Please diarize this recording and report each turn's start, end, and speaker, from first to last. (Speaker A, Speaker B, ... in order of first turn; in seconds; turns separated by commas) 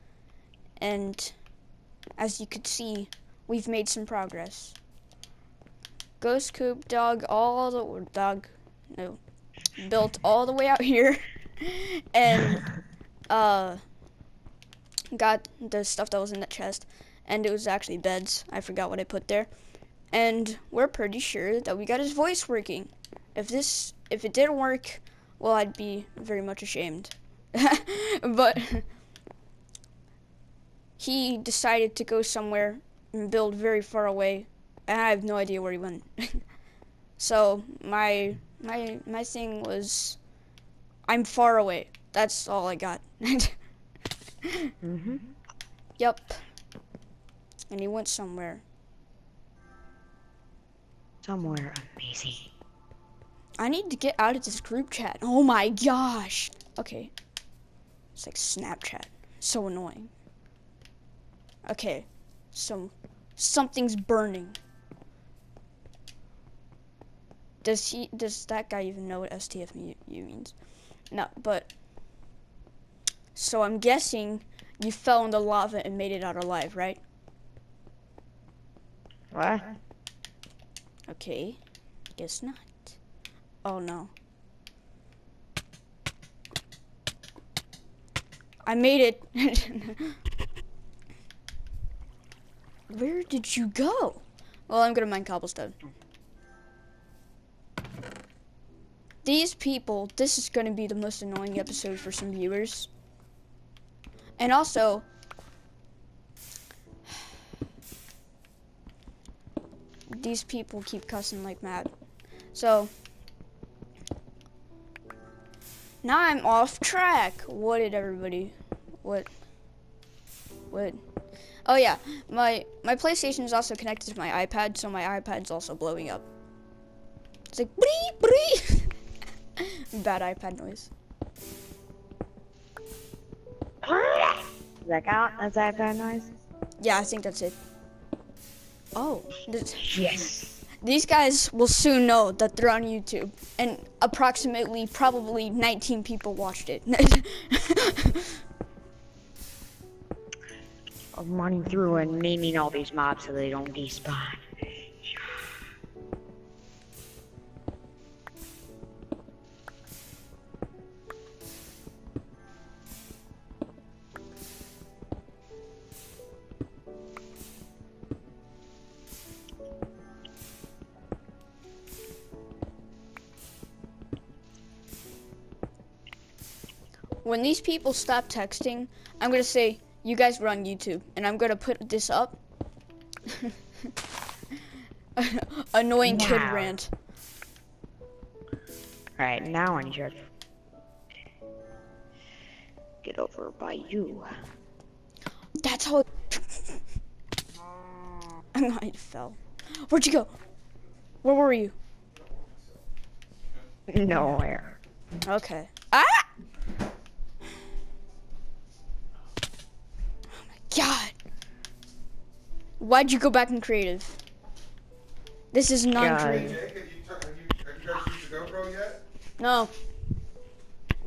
Speaker A: 0.8-1.4, Speaker A: 2.2-4.8, Speaker A: 6.2-9.2, Speaker A: 9.8-12.7, Speaker A: 13.3-13.8, Speaker A: 15.1-19.5, Speaker A: 20.1-28.9, Speaker A: 31.0-36.5, Speaker A: 37.2-40.2, Speaker A: 41.1-43.6, Speaker A: 44.4-44.7, Speaker B: 44.8-45.2, Speaker A: 46.0-46.4, Speaker A: 47.7-48.6, Speaker B: 51.2-52.5, Speaker A: 53.6-57.1, Speaker A: 58.1-60.1, Speaker A: 61.6-64.6, Speaker A: 67.6-70.5, Speaker A: 71.1-71.7, Speaker A: 73.3-77.0, Speaker B: 79.3-79.7, Speaker A: 81.1-81.6, Speaker A: 82.1-83.0, Speaker A: 83.6-84.1, Speaker A: 88.6-90.2, Speaker A: 92.9-95.8, Speaker A: 99.2-102.9, Speaker A: 104.4-105.0, Speaker A: 110.1-111.9, Speaker A: 112.5-112.9, Speaker A: 116.0-119.3, Speaker A: 120.7-121.0, Speaker A: 121.6-126.2, Speaker A: 127.5-128.9, Speaker A: 129.6-130.9, Speaker B: 133.8-136.3, Speaker A: 136.8-137.6, Speaker A: 138.9-140.1, Speaker B: 139.8-140.6, Speaker A: 140.8-148.4, Speaker B: 151.1-154.4, Speaker A: 177.2-182.4, Speaker A: 183.3-183.5, Speaker A: 185.2-186.9, Speaker B: 186.0-186.7, Speaker B: 189.2-190.2, Speaker B: 193.0-194.3, Speaker A: 195.6-196.8, Speaker A: 198.5-200.3, Speaker A: 201.2-201.7, Speaker C: 202.2-202.8, Speaker B: 203.9-204.8, Speaker A: 205.2-206.3, Speaker A: 210.4-211.1, Speaker A: 212.8-214.2, Speaker A: 215.5-216.6, Speaker B: 216.0-216.6, Speaker C: 216.2-219.0, Speaker A: 219.4-219.7